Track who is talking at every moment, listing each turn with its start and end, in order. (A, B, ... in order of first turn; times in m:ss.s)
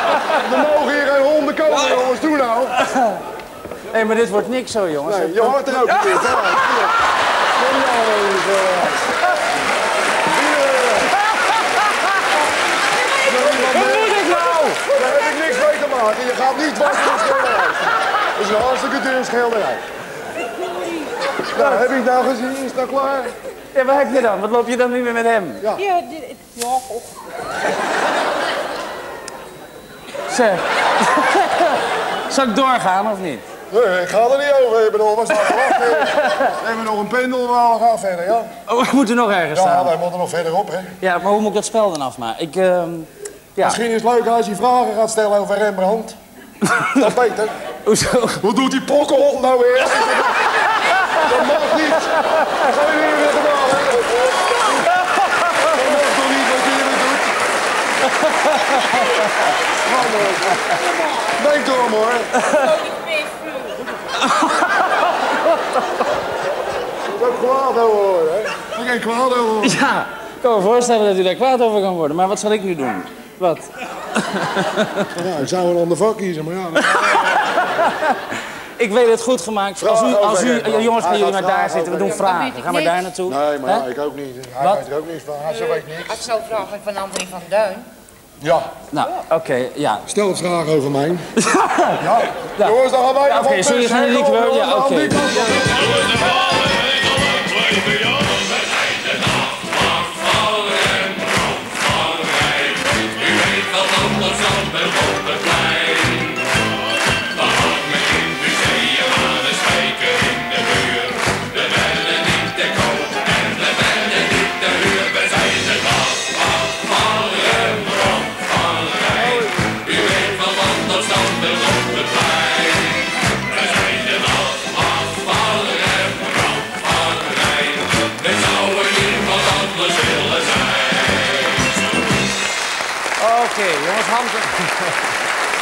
0:00.2-0:02.7 A
0:02.8-0:03.2 B
0:03.9-0:06.7 B
0:05.0-0:06.9 A
0:07.6-0:09.0 A
0:10.3-0:11.1 A
0:13.2-0:14.2 A
0:13.4-0:14.9 B
0:14.8-0:19.8 A
0:21.5-0:23.3 A
0:21.5-0:21.8 B
0:23.7-0:25.6 B
0:30.3-0:31.8 B
0:32.3-0:33.4 B
0:33.7-0:38.5 A
0:36.2-0:36.5 B
0:38.7-0:39.9 B
0:39.5-0:40.9 A
0:41.0-0:43.8 B
0:43.6-0:46.2 A
0:46.8-0:47.1 B
0:46.9-0:47.5 A
0:47.8-0:48.4 B
0:48.4-0:50.4 A
0:51.2-0:54.5 A
0:55.6-0:57.3 A
0:59.8-1:02.3 A
1:02.4-1:02.7 B
1:04.2-1:04.9 B
1:07.1-1:09.8 A
1:09.6-1:15.1 B
1:15.1-1:17.4 A
1:16.9-1:18.1 B
1:18.8-1:23.8 B
1:19.8-1:22.2 A
1:22.1-1:23.0 C
1:23.3-1:26.1 A
1:25.5-1:27.8 C
1:28.4-1:28.7 A
1:28.9-1:30.0 B
1:30.1-1:31.3 A
1:31.4-1:32.0 B
1:32.0-1:36.1 A
1:32.6-1:35.3 B
1:59.0-2:00.5 A
2:13.2-2:14.7 B